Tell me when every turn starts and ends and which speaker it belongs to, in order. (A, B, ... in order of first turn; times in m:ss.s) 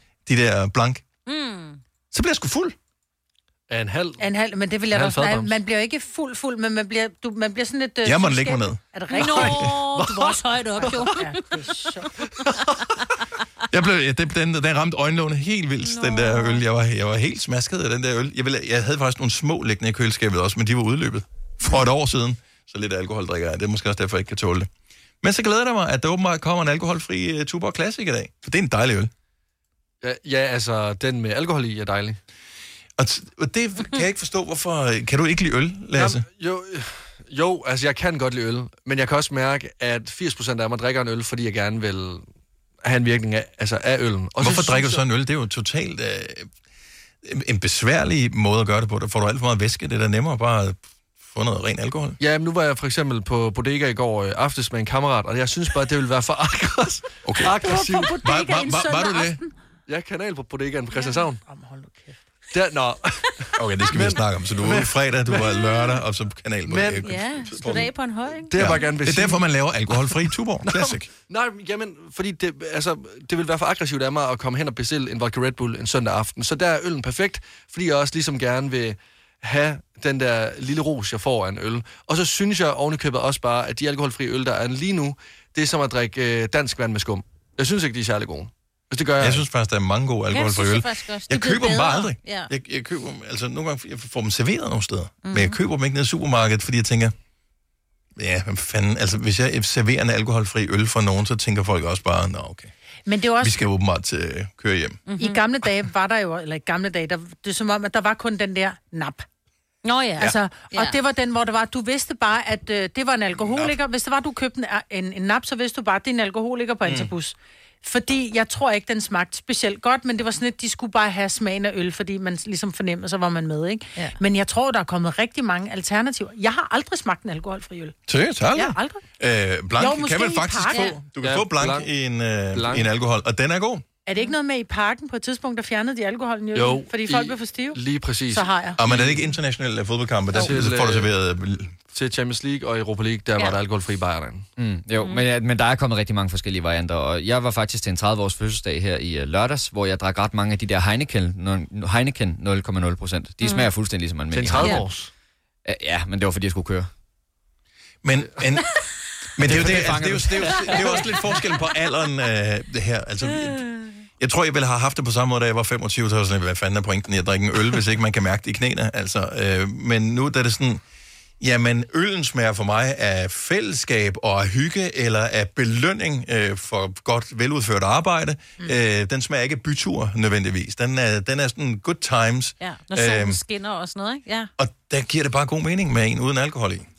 0:00.3-0:01.0 A
0:01.3-0:01.8 B
0:02.1-0:02.8 A
0:03.7-0:04.3 C
0:04.2-0:10.0 D
0:04.9-0:05.6 C
0:08.0-0:08.8 A
0:09.2-0:11.4 B
0:09.2-0:11.0 C
0:10.8-0:12.1 D
0:12.4-0:12.8 C
0:13.7-0:24.7 A
0:15.8-0:16.6 B
0:25.2-0:29.1 A
0:30.0-0:32.2 C
0:33.0-0:36.2 A
0:36.0-0:42.2 C
0:42.8-0:45.0 C
0:44.4-0:46.5 A
0:47.2-0:52.2 A
0:52.2-0:58.2 C
0:57.2-0:57.6 A
0:57.6-0:59.5 D
0:58.2-0:59.4 A
0:59.9-1:01.4 C
1:01.4-1:02.2 D
1:02.5-1:05.6 C
1:03.6-1:07.9 A
1:06.7-1:07.1 C
1:07.0-1:08.8 B
1:08.5-1:10.1 C
1:08.5-1:11.1 A
1:10.7-1:29.4 C
1:29.2-1:37.1 A
1:30.3-1:32.5 B
1:35.2-1:35.6 B
1:38.2-1:42.7 A
1:43.1-1:43.6 D
1:43.4-1:45.0 A
1:45.1-1:45.4 B
1:45.2-1:49.3 D
1:49.8-1:51.0 B
1:50.2-2:08.0 D
1:56.8-1:57.1 A
2:08.1-2:13.8 A
2:08.5-2:09.0 D
2:09.8-2:11.0 D
2:11.2-2:11.9 C
2:12.5-2:12.9 C
2:14.1-2:18.8 D
2:16.5-2:19.2 C
2:18.8-2:21.8 A
2:20.3-2:21.1 C
2:21.9-2:24.4 C
2:24.6-2:34.9 E
2:33.4-2:33.7 B
2:34.3-2:35.1 C
2:34.5-2:34.8 B
2:35.6-2:36.9 E
2:38.0-2:38.6 A
2:39.4-2:43.6 A
2:39.4-2:41.0 E
2:39.5-2:40.0 C
2:44.2-2:50.8 A
2:51.4-3:03.4 A
3:02.6-3:04.5 B
3:04.6-3:06.9 A